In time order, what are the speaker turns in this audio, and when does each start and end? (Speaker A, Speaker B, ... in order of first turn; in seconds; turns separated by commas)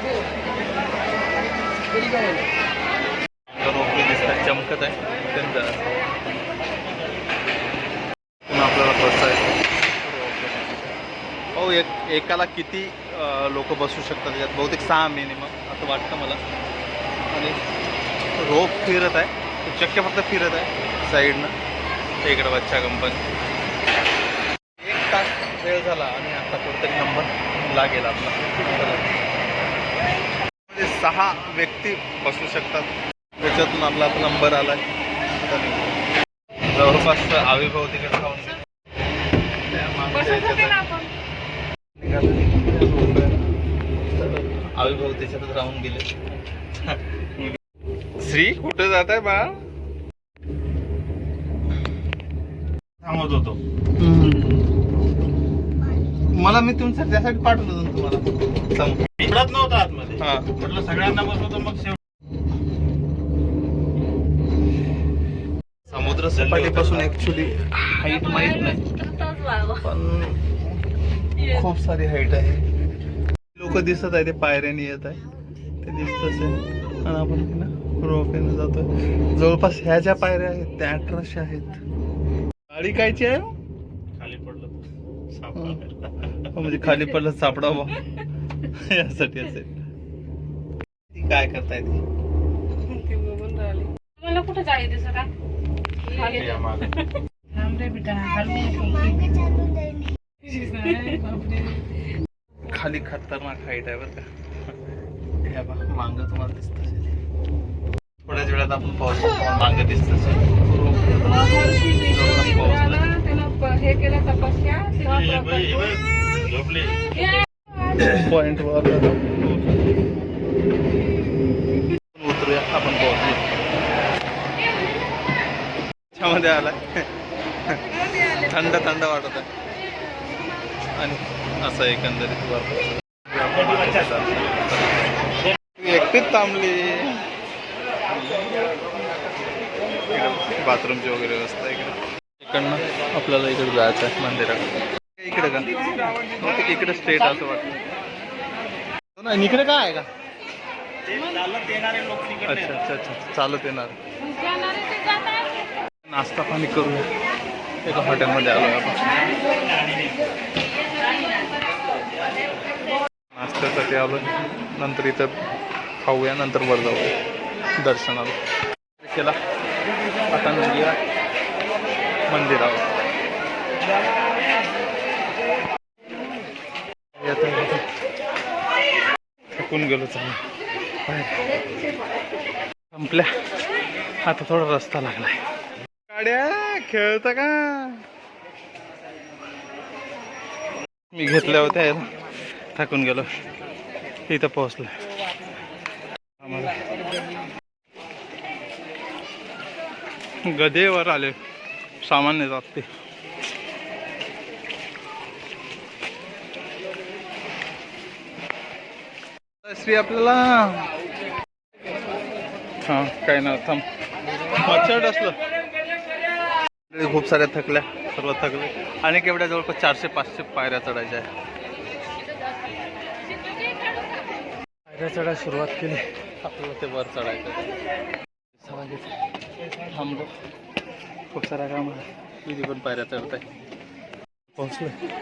Speaker A: 3.5-5.8, Speaker A: 8.5-10.9, Speaker A: 11.5-16.4, Speaker A: 17.3-17.6, Speaker A: 18.3-21.5, Speaker A: 22.2-23.2, Speaker A: 24.8-29.2, Speaker A: 30.7-35.9, Speaker A: 36.7-38.6, Speaker A: 39.7-41.0, Speaker B: 40.3-41.1, Speaker A: 42.0-43.4, Speaker A: 44.1-46.2, Speaker A: 46.8-47.4, Speaker A: 48.2-49.6, Speaker C: 53.0-53.6, Speaker A: 54.0-54.6, Speaker A: 56.3-59.3, Speaker C: 59.2-62.0, Speaker A: 60.2-60.6, Speaker A: 65.9-70.8, Speaker C: 66.4-67.1, Speaker A: 71.4-72.7, Speaker A: 73.5-75.2, Speaker A: 75.8-81.8, Speaker A: 82.7-83.5, Speaker C: 84.1-86.3, Speaker A: 85.5-85.8, Speaker A: 86.5-88.0, Speaker A: 88.6-89.7, Speaker A: 91.1-92.0, Speaker B: 92.9-95.3, Speaker B: 96.1-96.7, Speaker C: 96.2-96.9, Speaker B: 97.5-101.8, Speaker A: 102.7-104.2, Speaker A: 105.4-107.1, Speaker A: 108.2-111.4, Speaker B: 111.1-115.8, Speaker A: 112.0-113.1, Speaker C: 115.0-117.1, Speaker A: 117.9-119.7, Speaker A: 122.1-123.4, Speaker A: 126.1-127.0, Speaker A: 127.7-129.5, Speaker A: 130.9-135.2, Speaker A: 135.8-137.2, Speaker A: 140.1-147.8, Speaker A: 149.2-150.1, Speaker C: 151.5-152.0, Speaker A: 152.4-154.0, Speaker A: 156.0-157.1, Speaker A: 157.8-159.2, Speaker A: 163.3-165.3, Speaker A: 166.0-167.1, Speaker A: 167.8-168.4, Speaker A: 169.0-169.4, Speaker A: 170.3-171.0, Speaker A: 172.3-172.9, Speaker A: 177.2-177.8, Speaker A: 179.5-180.4, Speaker A: 181.1-181.3, Speaker A: 182.9-183.3, Speaker A: 184.2-185.4, Speaker A: 186.1-188.0, Speaker A: 191.1-192.0, Speaker A: 192.7-193.3, Speaker A: 194.3-194.9, Speaker A: 196.4-196.8, Speaker A: 200.5-201.4, Speaker A: 202.0-202.9, Speaker A: 209.6-210.9, Speaker A: 212.8-213.8, Speaker A: 214.6-215.3, Speaker A: 216.9-221.3, Speaker A: 224.9-227.7, Speaker A: 228.6-229.1, Speaker A: 229.8-230.3, Speaker A: 231.3-233.4, Speaker A: 234.5-234.9